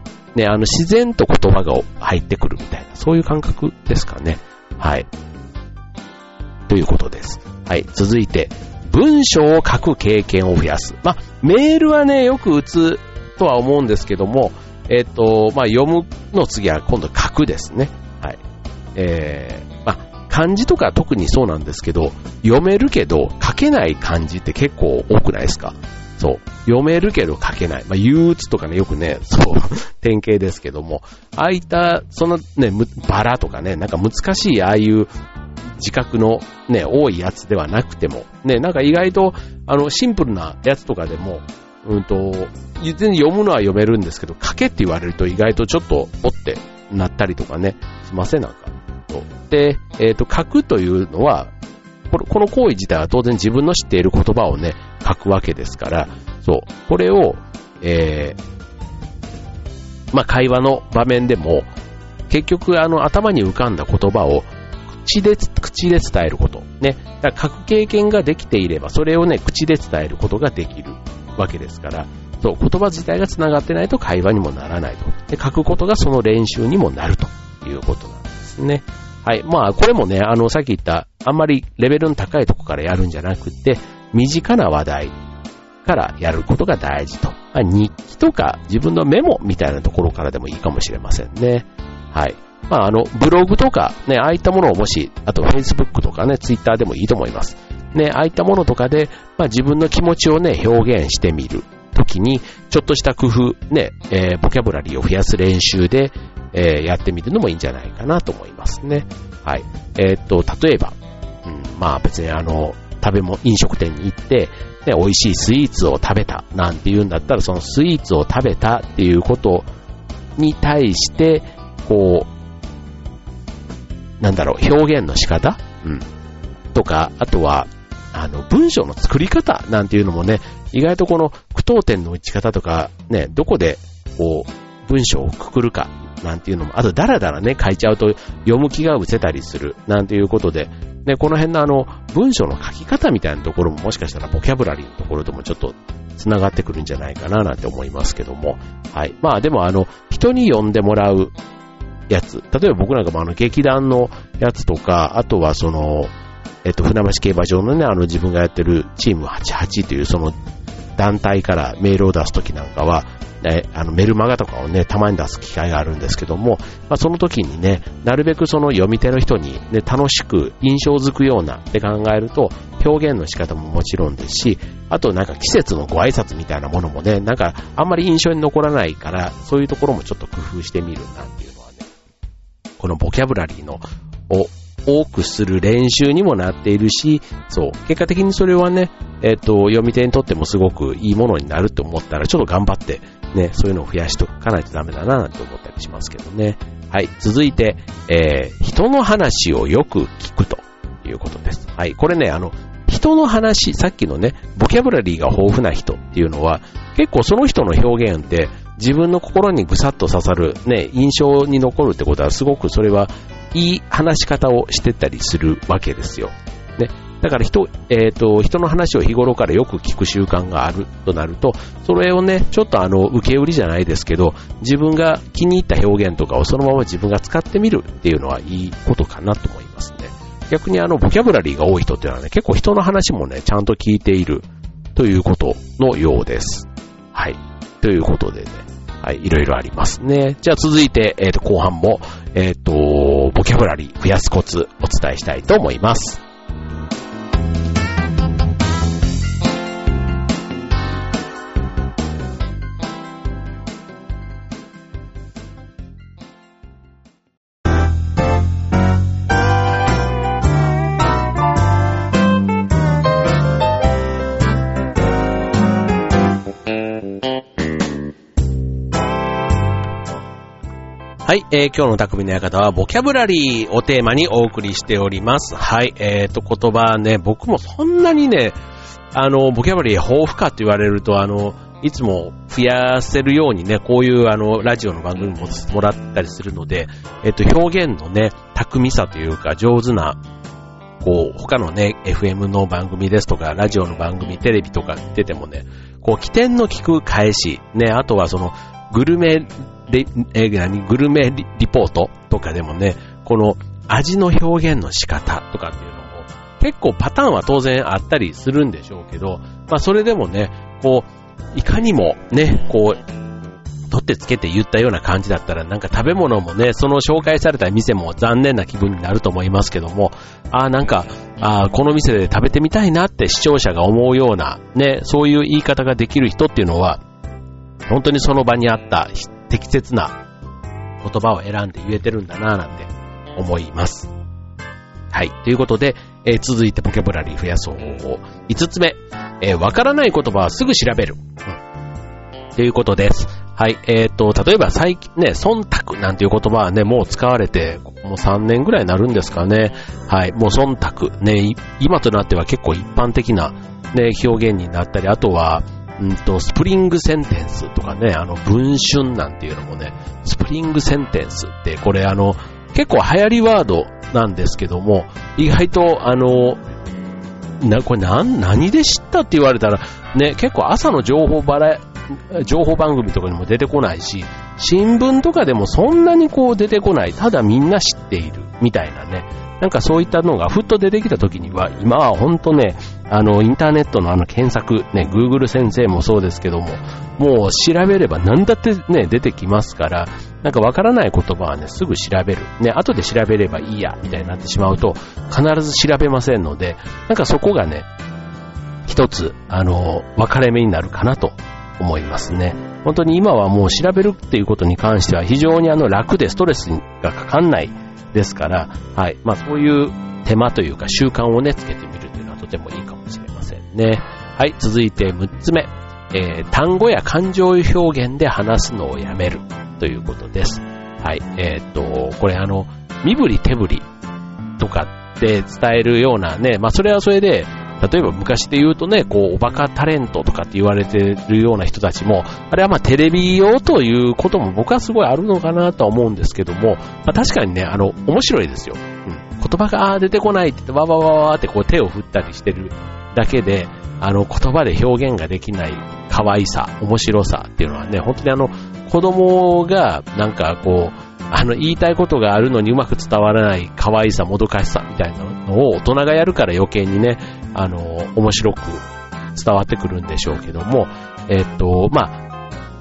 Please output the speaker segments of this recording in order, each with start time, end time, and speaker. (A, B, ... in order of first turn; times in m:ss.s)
0:00.3-0:05.1 A
0:06.7-0:18.4 A
0:18.9-0:35.1 A
0:35.8-0:51.5 A
0:52.1-0:58.4 A
1:00.1-1:01.7 A
1:02.3-1:25.2 A
1:25.8-1:59.7 A
2:00.4-2:02.3 A
2:04.2-2:06.1 A
2:06.7-2:31.4 A
2:32.1-2:36.1 A
2:36.6-2:40.4 A
2:41.0-3:01.9 A
3:02.8-4:06.2 A
4:31.2-4:38.6 A
4:39.1-4:50.2 A
4:51.0-5:13.0 A
5:13.9-5:27.0 A
5:27.9-5:30.2 A
5:31.0-5:34.1 A
5:35.1-5:41.6 A
5:42.6-6:06.6 A
6:07.6-6:37.9 A
6:38.9-7:03.9 A
7:04.6-7:42.2 A